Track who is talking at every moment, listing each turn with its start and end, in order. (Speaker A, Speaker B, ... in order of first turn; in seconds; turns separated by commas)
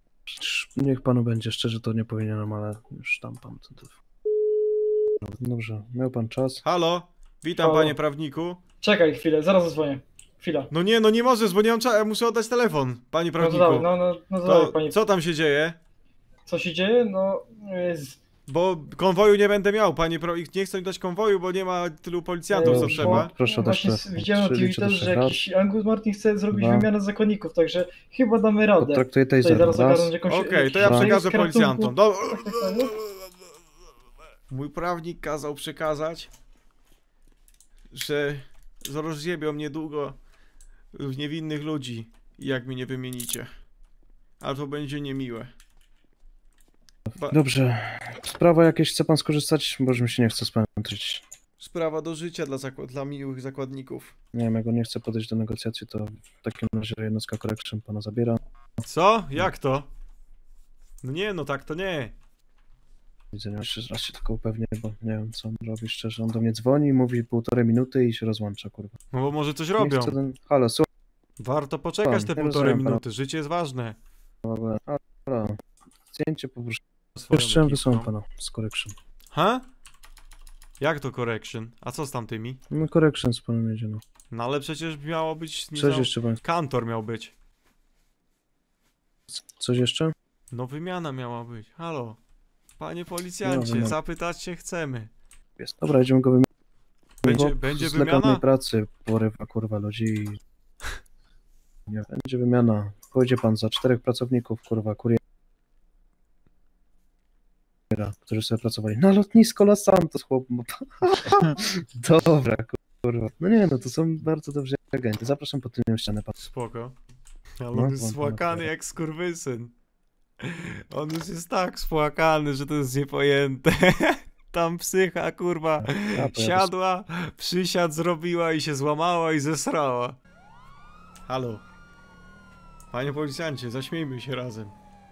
Speaker A: 0.3-4.0, Speaker A: 5.4-6.6, Speaker B: 6.6-8.6, Speaker C: 7.6-7.9, Speaker C: 8.8-10.7, Speaker B: 10.7-13.9, Speaker C: 13.4-15.0, Speaker B: 14.4-15.8, Speaker C: 16.5-18.2, Speaker B: 18.5-23.3, Speaker C: 22.5-32.9, Speaker A: 22.6-25.4, Speaker A: 26.5-26.9, Speaker A: 28.8-30.1, Speaker B: 30.3-33.0, Speaker A: 30.7-31.1, Speaker B: 34.5-36.3, Speaker B: 37.9-40.2, Speaker B: 40.9-43.5, Speaker B: 44.4-45.5, Speaker A: 47.3-51.2, Speaker B: 51.6-54.1, Speaker A: 54.3-58.4, Speaker B: 58.9-59.9, Speaker B: 61.0-62.1, Speaker A: 63.3-69.0, Speaker B: 69.1-70.1, Speaker A: 69.8-70.8, Speaker B: 71.4-74.0, Speaker A: 72.0-73.0, Speaker A: 74.4-75.6, Speaker A: 76.1-76.8, Speaker B: 77.2-78.1, Speaker A: 77.3-78.9, Speaker B: 79.3-79.6, Speaker B: 80.8-82.6, Speaker A: 82.7-84.0, Speaker B: 84.3-87.3, Speaker A: 85.7-86.4, Speaker A: 89.5-90.1, Speaker B: 90.5-92.2, Speaker B: 92.8-95.1, Speaker A: 93.4-94.0, Speaker A: 95.6-96.5, Speaker B: 97.2-98.4, Speaker A: 97.2-100.4, Speaker A: 101.9-105.2, Speaker A: 107.9-116.3, Speaker B: 116.4-116.9, Speaker B: 117.6-119.7, Speaker A: 117.7-118.7, Speaker B: 120.4-130.2, Speaker A: 125.8-126.7, Speaker B: 131.3-131.6, Speaker B: 132.9-134.7